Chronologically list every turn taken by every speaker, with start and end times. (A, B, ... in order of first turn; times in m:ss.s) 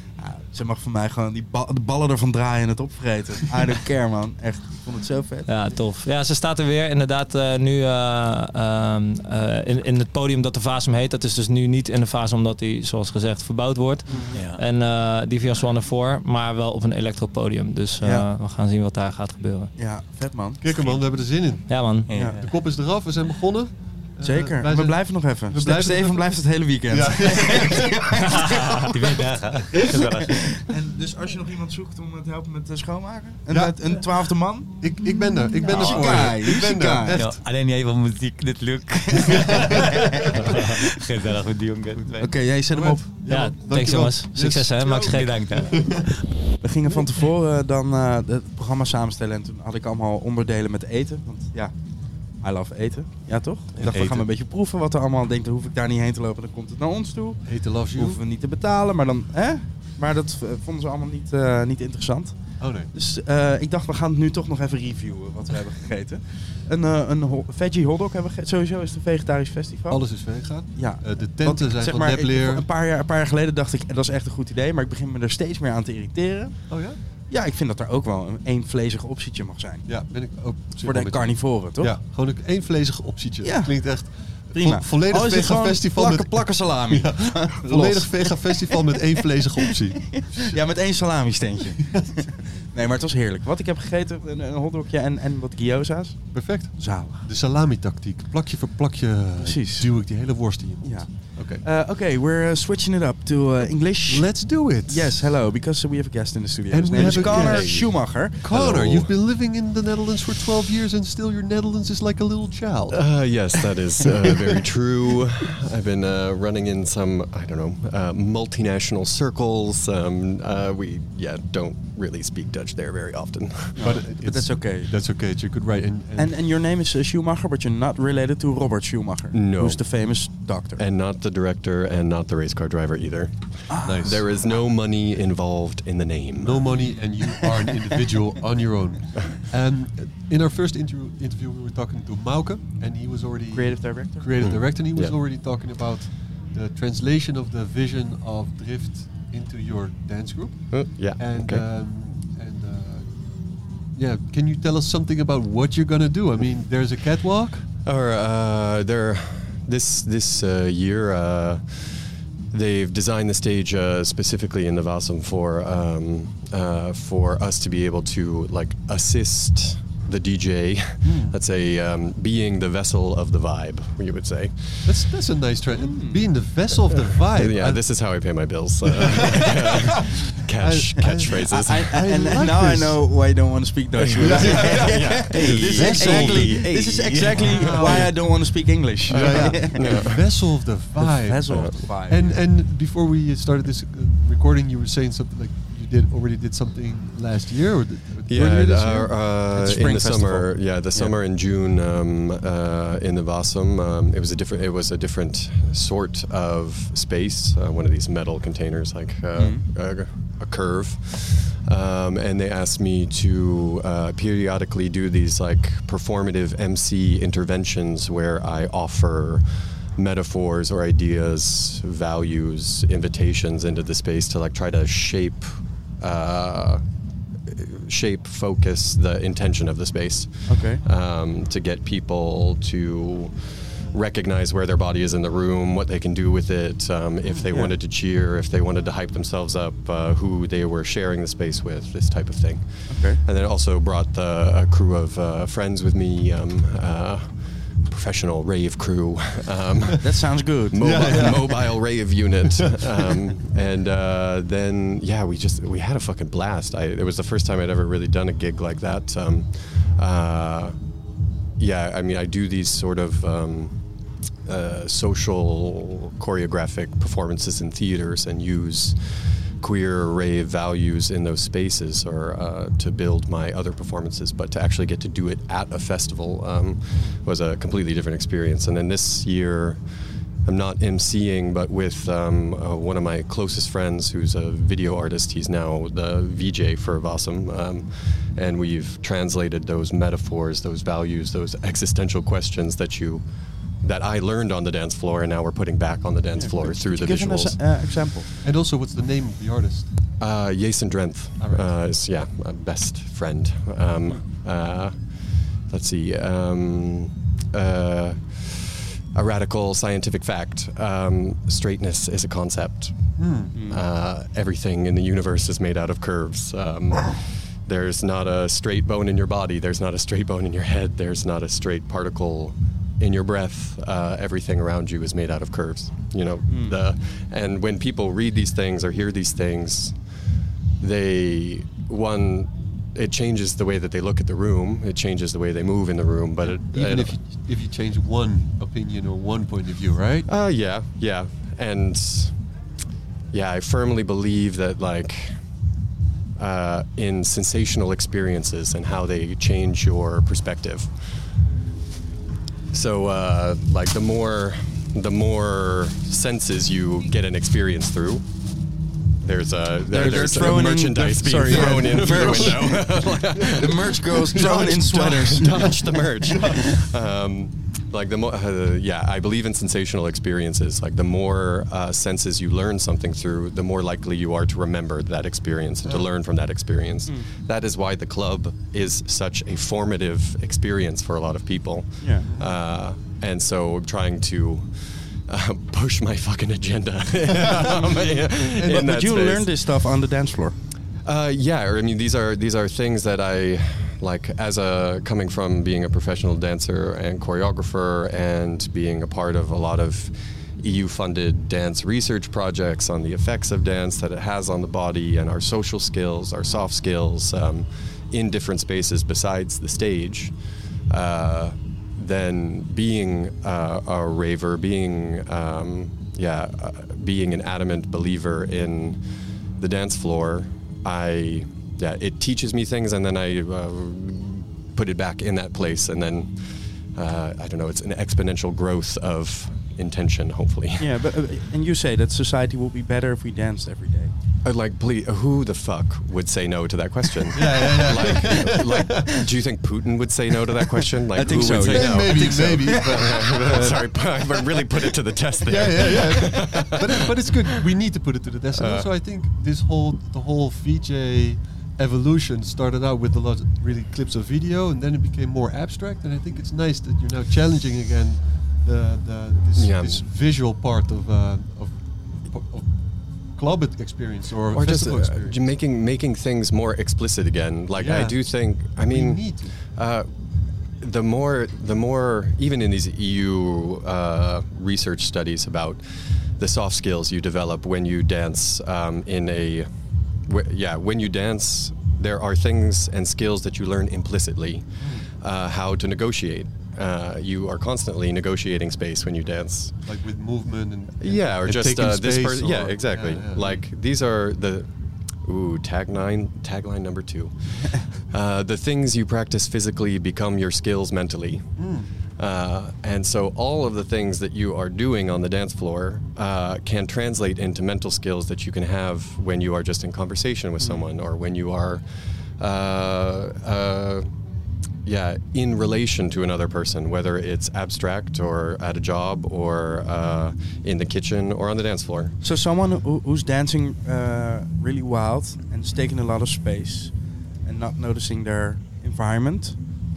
0:00.2-0:05.5 A
0:05.5-0:19.7 B
0:14.1-0:14.4 C
0:14.3-0:14.6 D
0:18.0-0:18.3 A
0:19.8-0:20.6 A
0:20.6-0:26.2 C
0:21.7-0:22.1 B
0:22.1-0:22.5 D
0:24.2-0:29.0 A
0:26.9-0:28.0 C
0:28.9-0:30.6 D
0:30.6-0:34.9 A
0:33.5-0:33.8 C
0:34.8-0:37.4 C
0:35.7-0:37.2 A
0:35.7-0:36.3 D
0:37.1-0:42.3 D
0:39.2-0:40.5 C
0:39.4-0:40.2 A
0:42.2-0:43.1 A
0:42.7-0:46.1 C
0:43.3-0:45.4 B
0:45.1-0:46.1 D
0:46.6-0:51.7 A
0:52.4-0:57.4 A
0:53.9-0:54.2 D
0:57.5-0:58.2 C
0:57.9-1:02.4 A
1:02.6-1:02.9 C
1:02.9-1:10.0 A
1:09.9-1:12.6 C
1:10.7-1:16.6 A
1:16.7-1:17.0 C
1:17.3-1:19.9 A
1:19.9-1:30.6 C
1:20.8-1:22.0 A
1:23.4-1:24.0 A
1:24.5-1:29.2 A
1:30.0-1:37.2 A
1:36.3-1:41.6 C
1:39.4-1:39.9 A
1:40.8-1:48.4 A
1:44.1-1:45.1 C
1:46.7-1:47.9 C
1:47.0-1:49.1 E
1:48.4-1:53.0 C
1:52.9-2:04.0 E
2:03.8-2:05.0 A
2:03.8-2:06.3 C
2:06.2-2:10.8 A
2:09.3-2:09.8 E
2:10.8-2:17.6 E
2:13.7-2:14.0 A
2:13.8-2:14.2 C
2:16.4-2:33.2 C
2:23.5-2:24.5 A
2:24.4-2:25.2 E
2:30.7-2:31.6 E
2:34.0-2:37.7 C
2:37.8-2:42.0 E
2:42.5-2:55.1 E
2:51.0-2:51.4 C
2:54.9-2:57.8 C
2:55.8-2:56.2 A
2:57.1-3:02.3 E
2:58.9-3:00.0 C
3:00.6-3:03.0 C
3:01.3-3:10.0 A
3:04.0-3:06.5 E
3:04.2-3:06.7 C
3:05.4-3:07.5 D
3:07.4-3:08.2 C
3:07.7-3:08.1 E
3:09.1-3:10.6 E
3:09.1-3:19.3 C
3:11.0-3:12.4 A
3:11.5-3:11.8 E
3:18.3-3:39.4 E
3:19.5-3:21.2 A
3:29.4-3:29.6 A
3:40.0-3:46.8 E
3:47.5-4:07.3 E
3:50.5-3:50.8 A
3:57.5-3:57.8 A
4:02.9-4:03.2 A
4:07.9-4:10.0 E
4:10.0-4:11.5 A
4:10.7-4:20.8 E
4:10.8-4:11.7 C
4:12.5-4:13.1 C
4:21.6-4:23.7 E
4:24.5-4:29.0 E
4:29.6-4:39.8 E
4:40.5-4:53.2 E
4:53.8-4:57.6 E
4:56.4-4:58.3 A
4:58.4-4:59.9 C
5:00.2-5:04.9 E
5:01.4-5:01.7 C
5:05.7-5:29.9 E
5:13.2-5:13.6 C
5:13.5-5:13.8 A
5:26.5-5:26.8 A
5:30.8-5:37.2 E
5:36.6-5:40.3 C
5:40.3-5:42.3 E
5:43.3-5:45.3 E
5:46.4-5:50.9 E
5:52.7-5:58.2 E
5:59.2-6:29.5 E
5:59.9-6:05.8 A
6:01.5-6:02.5 C
6:04.3-6:04.8 C
6:05.4-6:05.8 C
6:06.4-6:06.7 C
6:22.0-6:22.3 A
6:22.2-6:22.5 C
6:27.4-6:28.9 C
6:28.6-6:30.6 A
6:31.0-6:50.3 E
6:50.9-6:59.0 E
6:59.6-7:06.3 E
7:07.0-7:10.9 E
7:10.8-7:14.1 A
7:14.4-7:27.3 E
7:17.3-7:19.3 C
7:21.1-7:23.3 A
7:21.2-7:23.9 C
7:25.5-7:42.7 C
7:28.6-7:28.9 E
7:39.6-7:40.0 E
7:43.4-7:45.4 C
7:44.5-7:50.1 E
7:47.8-7:48.2 C
7:48.8-7:49.5 C
7:50.8-7:55.8 E
7:56.4-7:59.7 E
8:00.3-8:04.7 E
8:05.2-8:09.8 E
8:09.9-8:13.6 C
8:11.0-8:14.7 E
8:15.3-8:17.3 E
8:18.1-8:21.5 E
8:21.6-8:21.9 C
8:22.2-8:31.8 E
8:30.6-8:30.9 C
8:32.4-8:34.1 E
8:34.9-8:42.2 E
8:42.2-8:46.9 A
8:47.4-8:49.6 A